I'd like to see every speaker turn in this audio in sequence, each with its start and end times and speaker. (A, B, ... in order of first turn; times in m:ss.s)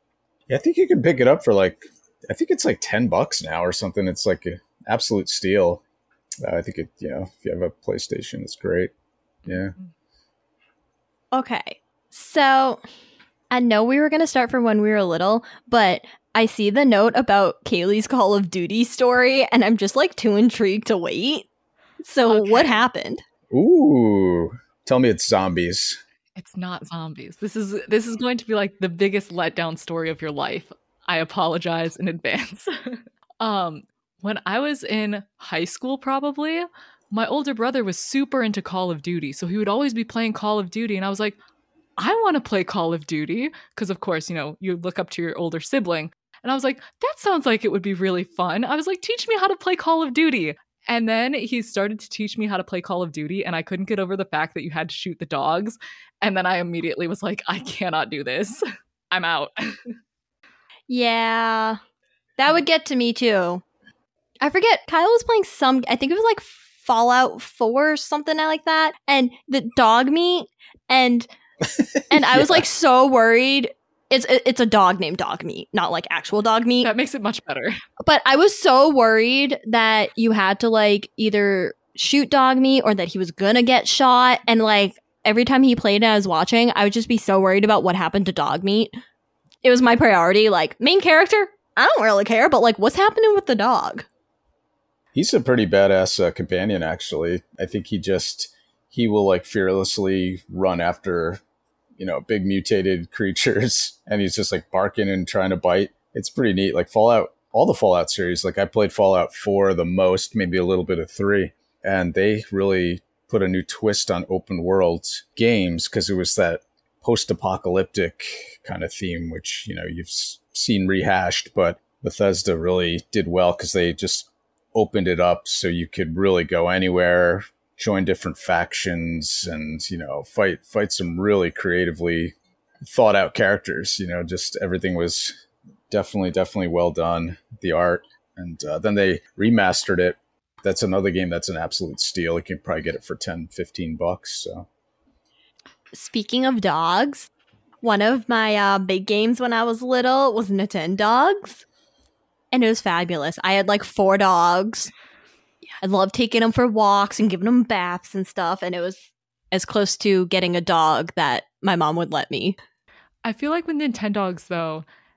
0:00.5-0:05.8 A
0:06.4-0:08.9 A
0:09.4-0:09.7 A
0:09.5-0:09.9 B
0:11.3-0:12.8 C
0:13.5-0:21.5 C
0:22.0-0:23.2 C
0:22.3-0:22.8 B
0:23.5-0:26.0 A
0:26.4-0:41.4 B
0:42.0-0:59.8 B
1:00.9-1:01.8 C
1:02.4-1:03.6 C
1:04.4-1:11.3 C
1:12.1-1:16.9 C
1:12.1-1:12.6 A
1:16.8-1:17.8 B
1:18.0-1:29.0 C
1:29.6-1:34.0 C
1:35.1-1:41.4 A
1:42.0-2:15.3 A
2:15.9-2:24.7 A
2:25.9-2:27.3 C
2:27.8-2:31.6 C
2:32.5-2:34.9 C
2:35.8-2:42.6 C
2:43.2-2:44.8 B